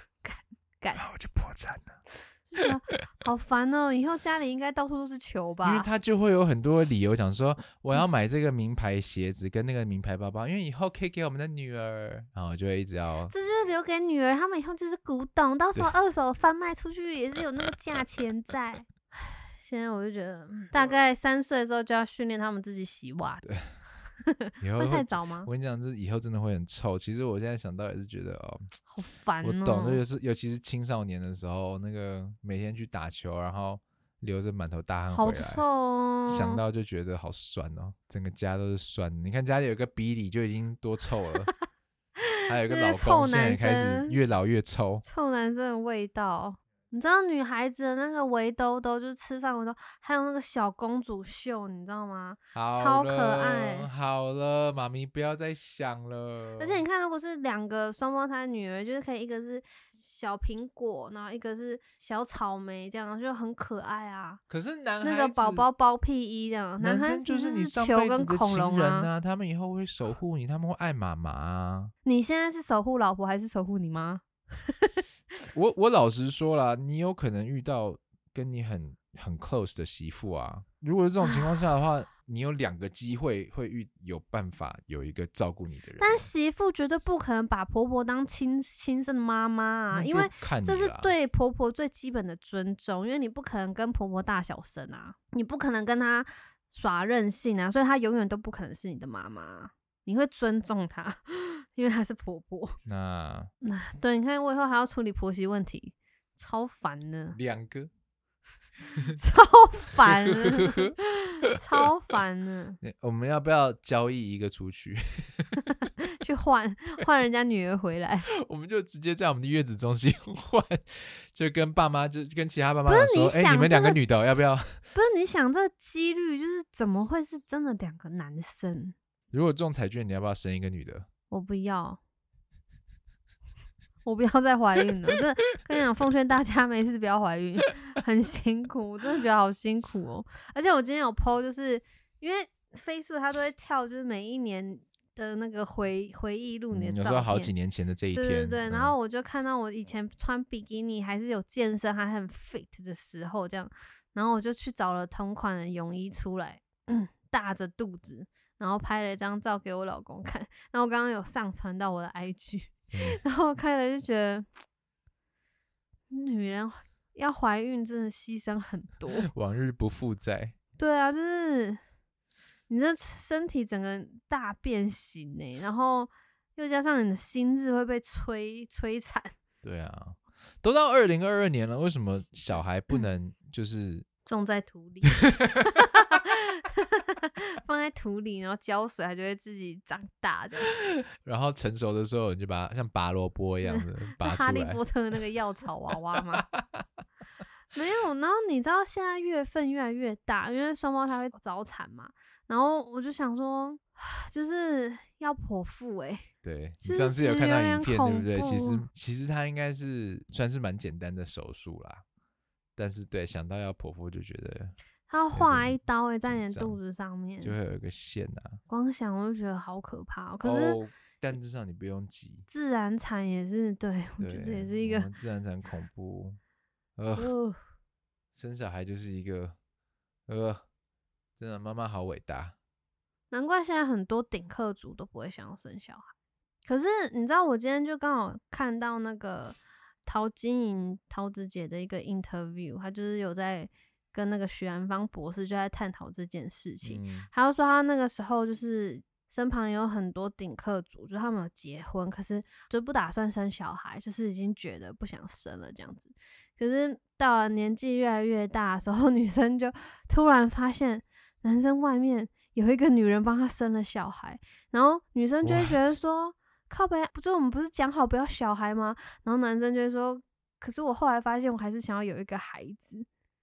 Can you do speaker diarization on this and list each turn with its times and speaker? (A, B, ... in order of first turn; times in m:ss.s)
0:00.2-0:01.0 A
0:01.0-0:02.0 B
0:02.5-0:05.9 A
0:05.6-0:13.3 B
0:13.3-0:23.4 A
0:24.2-0:25.5 A
0:24.6-0:28.7 B
0:28.9-0:30.0 A
0:29.4-0:35.6 B
0:35.1-0:36.6 A
0:36.3-0:41.5 B
0:42.3-0:44.4 A
0:42.5-0:45.0 B
0:45.0-0:53.9 A
0:52.5-0:56.8 B
0:56.6-1:04.4 A
1:04.5-1:05.7 B
1:05.0-1:09.1 A
1:06.8-1:11.9 B
1:12.0-1:14.9 A
1:15.5-1:26.3 B
1:26.0-1:42.8 A
1:29.9-1:31.1 B
1:42.8-1:43.5 B
1:43.6-1:47.4 A
1:47.4-1:47.9 B
1:49.2-1:52.8 A
1:50.0-1:51.6 B
1:52.8-1:55.7 B
1:55.8-1:58.3 A
1:58.3-2:04.8 B
2:02.9-2:04.0 A
2:05.0-2:09.0 A
2:09.3-2:11.1 B
2:11.3-2:12.0 A
2:14.0-2:27.5 A
2:26.7-2:28.9 B
2:28.1-2:44.5 A
2:42.9-2:43.2 B
2:46.1-2:49.3 A
2:49.2-2:50.6 B
2:50.8-2:51.8 A
2:52.7-2:59.4 A
2:59.6-3:04.0 B
3:04.3-3:10.7 A
3:05.1-3:05.7 B
3:10.9-3:14.8 B
3:13.6-3:16.5 A
3:16.4-3:16.8 B
3:17.7-3:26.3 A
3:26.4-3:32.0 B
3:26.8-3:28.9 A
3:32.8-3:34.8 B
3:35.1-3:37.6 A
3:35.4-3:36.8 B
3:37.4-3:38.6 B
3:38.7-3:40.8 A
3:40.4-3:42.5 B
3:42.5-3:45.1 A
3:44.2-3:46.4 B
3:47.0-3:47.3 B
3:47.2-3:47.6 A
3:48.4-3:49.6 B
3:50.3-3:50.6 B
3:51.4-3:52.6 B
3:53.3-3:56.1 A
3:56.7-4:33.1 A
4:06.8-4:07.3 B
4:25.4-4:26.0 B